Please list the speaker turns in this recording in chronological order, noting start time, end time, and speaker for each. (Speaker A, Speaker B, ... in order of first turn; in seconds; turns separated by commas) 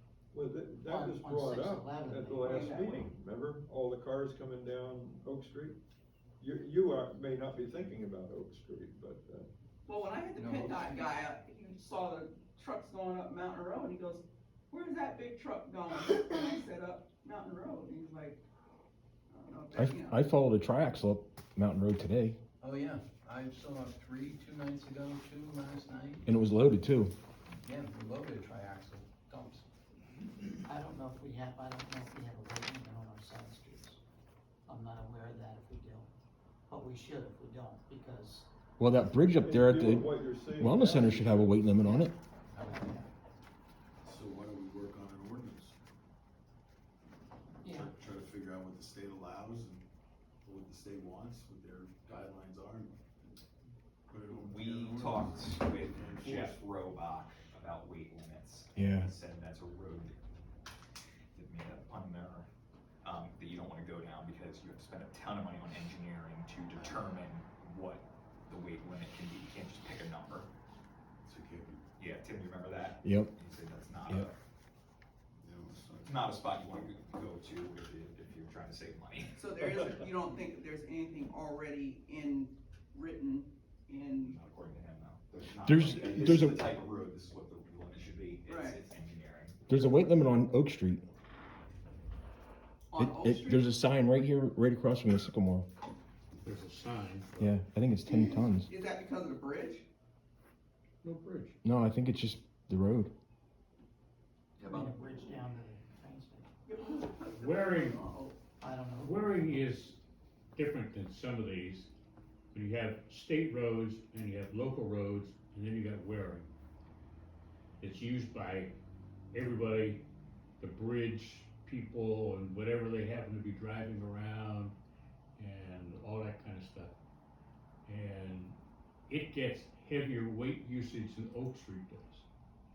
Speaker A: 0.3-5.8, Speaker B: 0.8-2.8, Speaker C: 2.4-3.1, Speaker A: 6.4-9.5, Speaker C: 9.8-18.4, Speaker D: 10.3-11.0, Speaker C: 19.3-20.3, Speaker E: 19.7-22.4, Speaker D: 22.6-26.2, Speaker E: 26.2-27.1, Speaker D: 27.6-29.6, Speaker B: 30.6-34.0, Speaker B: 34.6-36.1, Speaker B: 36.7-38.5, Speaker E: 38.8-42.1, Speaker A: 39.3-41.7, Speaker B: 41.8-43.1, Speaker D: 42.5-42.8, Speaker F: 44.0-45.7, Speaker B: 47.6-47.9, Speaker F: 47.6-49.9, Speaker F: 50.4-53.1, Speaker F: 54.1-56.6, Speaker G: 54.4-60.1, Speaker E: 58.8-59.1, Speaker G: 61.3-62.5, Speaker G: 63.0-70.5, Speaker F: 66.7-67.1, Speaker F: 71.2-71.8, Speaker G: 72.0-74.3, Speaker E: 73.0-73.3, Speaker F: 75.4-76.3, Speaker G: 76.0-79.3, Speaker C: 79.3-84.4, Speaker G: 84.2-89.6, Speaker F: 85.3-86.7, Speaker E: 85.6-86.7, Speaker C: 88.4-88.8, Speaker E: 89.7-91.0, Speaker C: 92.9-93.7, Speaker E: 93.0-95.7, Speaker H: 96.4-97.5, Speaker E: 97.4-98.7, Speaker C: 98.0-99.8, Speaker H: 101.0-101.5, Speaker E: 101.6-103.1, Speaker G: 104.6-104.9, Speaker B: 104.6-106.5, Speaker C: 106.7-108.4, Speaker H: 107.3-108.0, Speaker B: 108.6-109.7, Speaker H: 109.0-110.0, Speaker H: 110.5-111.9, Speaker H: 112.5-116.5, Speaker H: 117.8-118.8, Speaker H: 119.3-120.0, Speaker H: 120.6-124.8, Speaker H: 125.4-126.9, Speaker H: 127.8-128.6, Speaker H: 129.1-132.2